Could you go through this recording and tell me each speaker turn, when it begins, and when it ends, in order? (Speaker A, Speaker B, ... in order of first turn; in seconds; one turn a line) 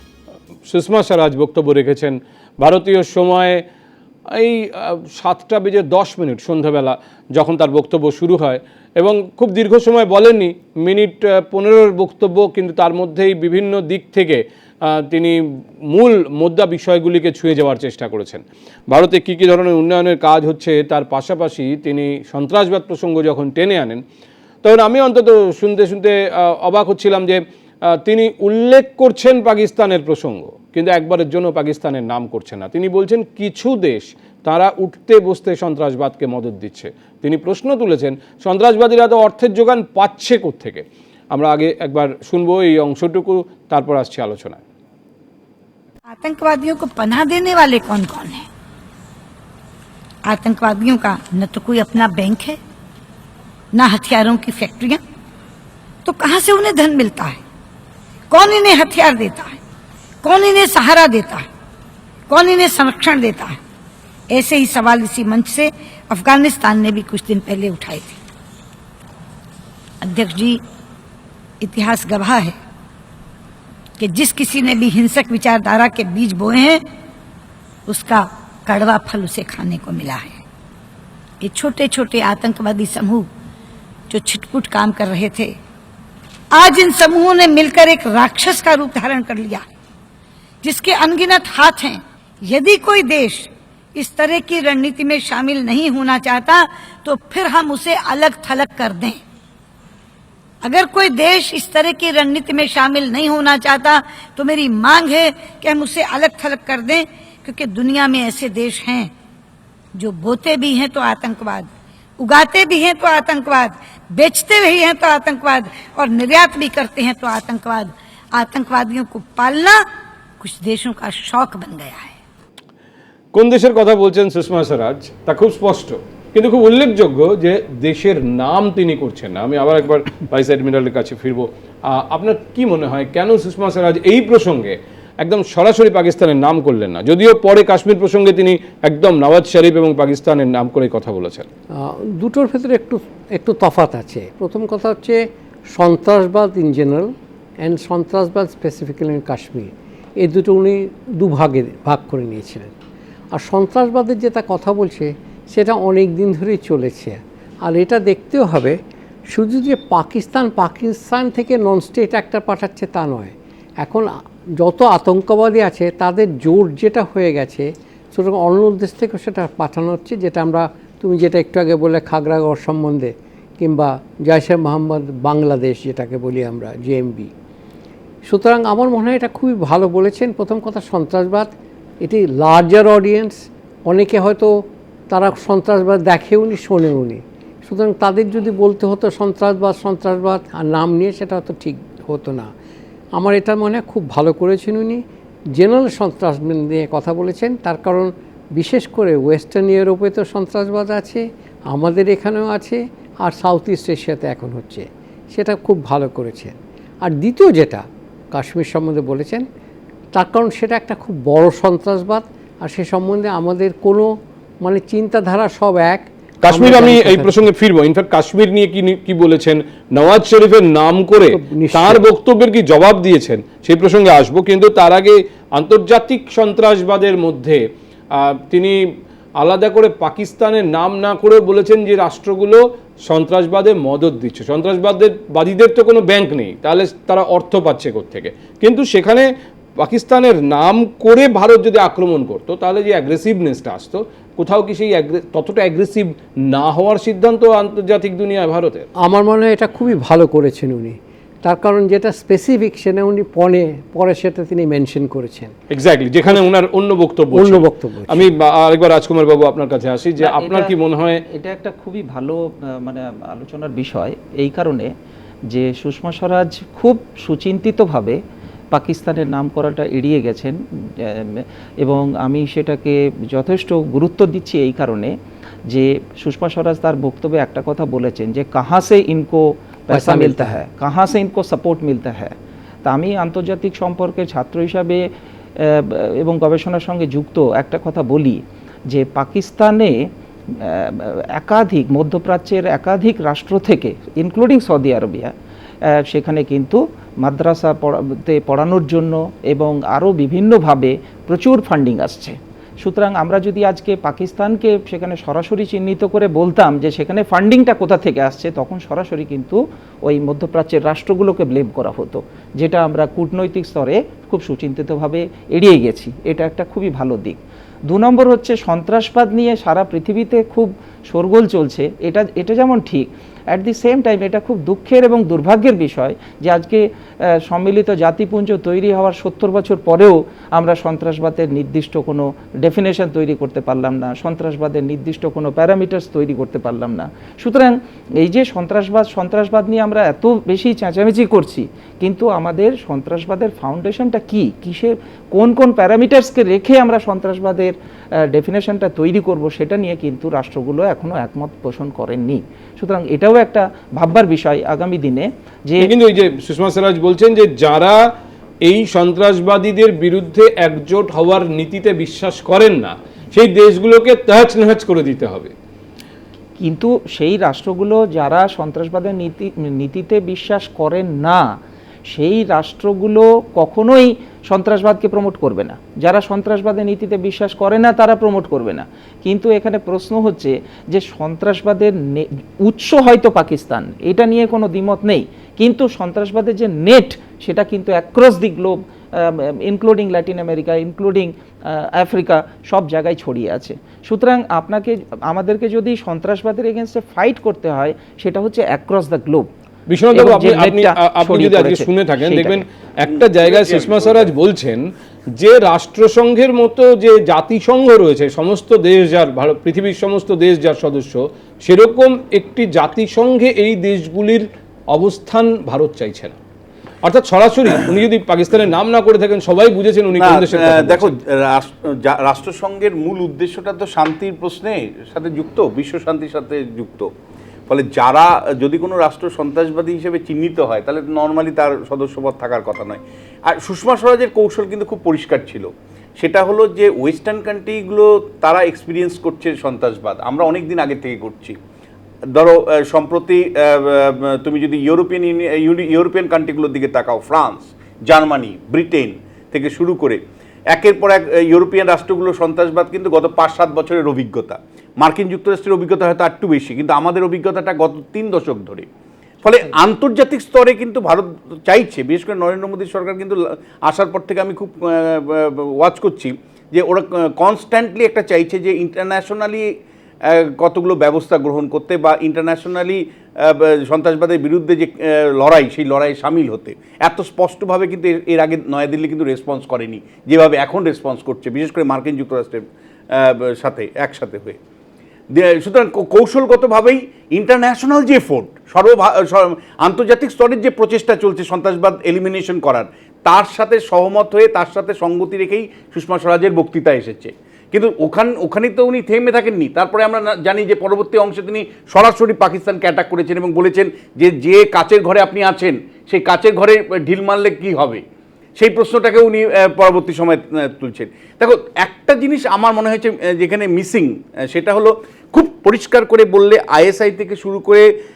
Speaker A: 0.7-3.6
Speaker A: 4.3-15.4
Speaker A: 15.9-24.0
Speaker A: 24.6-44.6
Speaker B: 46.1-48.5
Speaker B: 50.2-52.6
Speaker B: 53.7-55.0
Speaker B: 56.0-57.4
Speaker B: 58.3-59.6
Speaker B: 60.2-61.5
Speaker B: 62.3-63.6
Speaker B: 64.3-68.2
Speaker B: 70.0-70.6
Speaker B: 71.6-72.5
Speaker B: 74.0-76.8
Speaker B: 77.9-80.4
Speaker B: 81.4-83.3
Speaker B: 84.1-85.5
Speaker B: 86.5-89.7
Speaker B: 90.6-99.2
Speaker B: 100.6-109.1
Speaker B: 110.0-111.7
Speaker B: 112.2-119.8
Speaker B: 120.4-122.2
Speaker A: 123.3-141.4
Speaker C: 141.8-145.2
Speaker C: 145.7-152.7
Speaker C: 153.3-158.8
Speaker C: 159.3-177.3
Speaker C: 178.2-183.3
Speaker C: 183.9-184.5
Speaker C: 185.1-192.5
Speaker C: 193.1-195.0
Speaker C: 195.5-209.4
Speaker C: 210.1-217.4
Speaker A: 216.4-227.6
Speaker C: 221.2-222.0
Speaker A: 228.1-228.8
Speaker A: 229.4-239.3
Speaker A: 239.8-248.9
Speaker C: 249.0-255.5
Speaker A: 255.7-261.2
Speaker C: 257.3-258.3
Speaker D: 260.2-260.7
Speaker D: 261.3-264.9
Speaker D: 265.5-268.2
Speaker D: 268.7-275.1
Speaker D: 275.7-295.3
Speaker C: 279.9-280.6
Speaker D: 295.9-355.9
Speaker A: 355.8-358.0
Speaker A: 358.6-365.5
Speaker D: 366.6-371.5
Speaker D: 372.1-399.5
Speaker A: 399.9-404.9
Speaker D: 400.1-402.6
Speaker E: 403.1-404.3
Speaker A: 405.4-416.4
Speaker A: 417.0-421.1
Speaker E: 420.2-427.1
Speaker E: 427.7-441.6
Speaker E: 442.3-450.2
Speaker E: 450.7-458.9
Speaker E: 459.4-469.7
Speaker E: 470.2-484.6
Speaker E: 485.3-508.0
Speaker E: 508.6-517.9